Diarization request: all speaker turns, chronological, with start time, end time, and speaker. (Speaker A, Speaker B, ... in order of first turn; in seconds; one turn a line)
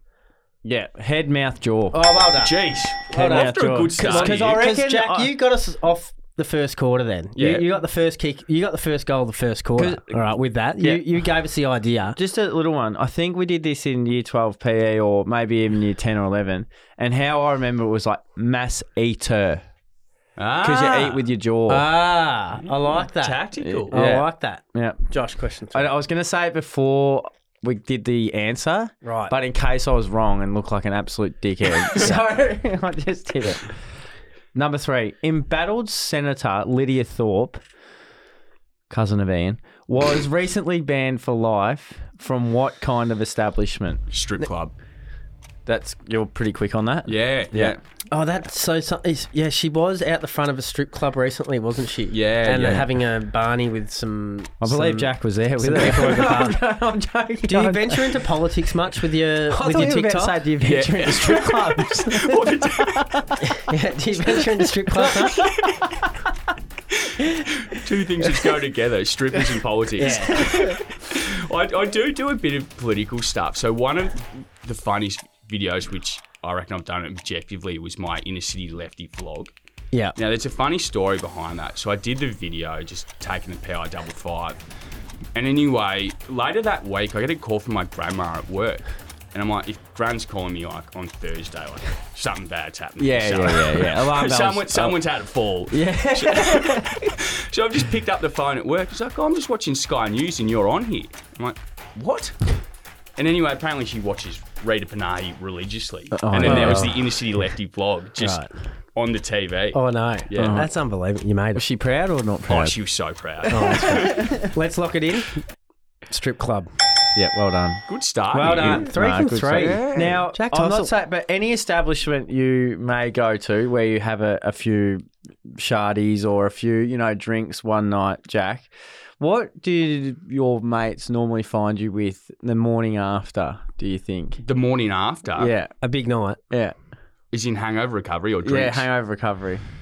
Speaker A: 0.6-2.0
Speaker B: 1.9-12.2
Speaker C: 2.2-4.6
Speaker A: 3.1-5.3
Speaker C: 7.4-7.7
Speaker A: 9.8-10.1
Speaker A: 10.8-11.0
Speaker A: 12.2-19.6
Speaker C: 20.4-21.3
Speaker A: 20.6-21.9
Speaker B: 21.7-25.9
Speaker C: 22.6-24.0
Speaker A: 23.6-25.0
Speaker A: 25.7-33.7
Speaker B: 29.0-29.4
Speaker A: 34.5-37.6
Speaker A: 38.9-44.0
Speaker C: 44.1-44.7
Speaker A: 45.7-47.8
Speaker C: 47.1-47.8
Speaker B: 48.1-56.6
Speaker C: 52.1-52.9
Speaker A: 54.6-58.2
Speaker B: 57.5-60.4
Speaker A: 59.5-63.5
Speaker C: 60.6-63.2
Speaker B: 63.4-65.5
Speaker A: 64.9-65.9
Speaker C: 65.5-65.8
Speaker C: 67.0-79.5
Speaker B: 70.0-70.8
Speaker A: 70.4-70.7
Speaker C: 80.2-84.6
Speaker C: 85.3-102.6
Speaker A: 93.0-95.0
Speaker A: 95.7-97.1
Speaker C: 103.2-110.7
Speaker A: 106.1-106.9
Speaker B: 106.4-107.1
Speaker B: 108.2-108.5
Speaker B: 109.7-111.7
Speaker A: 110.4-110.7
Speaker A: 111.5-112.8
Speaker C: 112.5-114.5
Speaker B: 113.5-115.4
Speaker A: 113.6-114.5
Speaker B: 116.1-116.7
Speaker A: 117.2-117.8
Speaker C: 117.9-118.9
Speaker B: 118.3-120.9
Speaker A: 118.5-134.4
Speaker C: 119.5-120.2
Speaker C: 134.4-135.5
Speaker A: 135.4-135.7
Speaker B: 135.8-136.4
Speaker C: 137.3-138.9
Speaker A: 138.4-139.6